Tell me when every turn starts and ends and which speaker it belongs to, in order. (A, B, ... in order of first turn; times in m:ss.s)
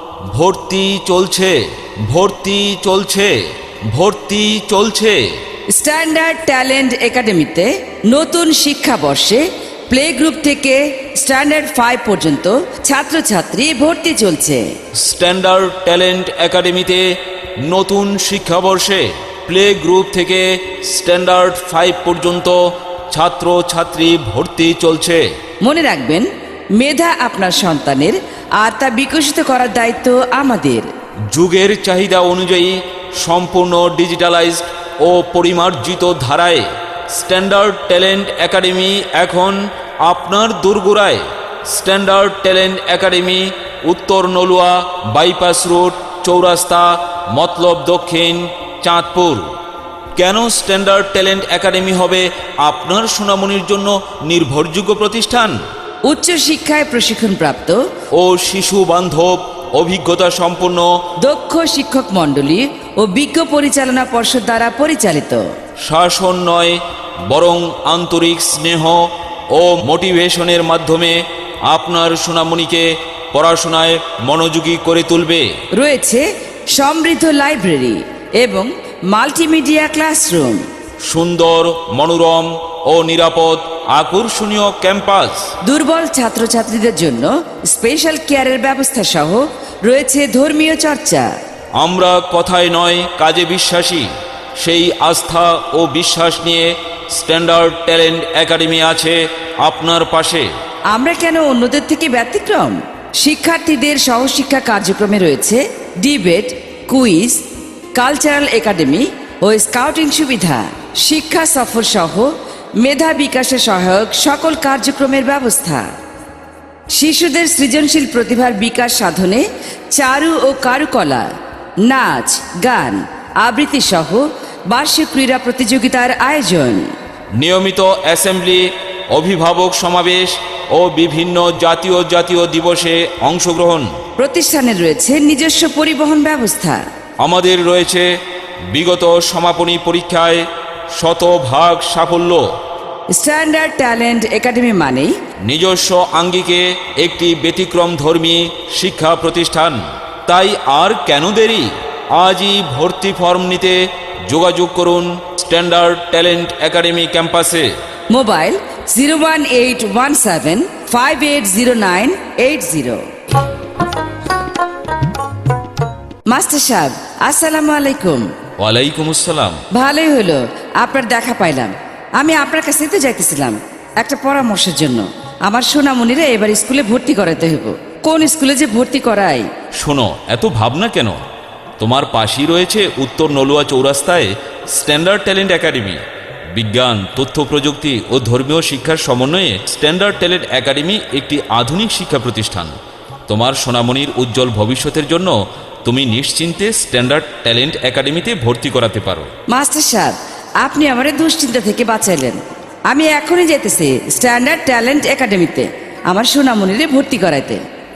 0:00.3-0:03.4 A
0:03.9-0:05.3 A
0:05.7-0:14.7 B
0:15.0-0:17.0 A
0:17.6-0:22.6 A
0:23.1-0:25.2 A
0:25.6-0:26.3 B
0:26.8-0:30.9 B
0:31.3-0:49.5 A
0:50.2-0:55.6 A
0:56.0-0:57.8 B
0:58.1-1:00.9 A
1:01.2-1:05.4 B
1:05.8-1:15.5 A
1:15.7-1:20.6 B
1:21.1-1:25.6 A
1:25.6-1:31.3 B
1:31.8-1:40.5 A
1:40.9-1:47.4 B
1:48.0-1:55.9 B
1:56.9-2:01.3 B
2:01.8-2:06.9 B
2:07.4-2:13.9 A
2:14.2-2:16.8 B
2:17.2-2:18.1 A
2:18.7-2:22.5 A
2:23.1-2:25.1 B
2:25.4-2:37.7 A
2:38.1-2:43.0 B
2:46.3-2:48.3 B
2:48.6-2:49.6 A
2:49.7-2:59.5 B
2:59.8-3:01.2 A
3:01.8-3:12.8 A
3:13.3-3:19.3 A
3:19.5-3:27.6 B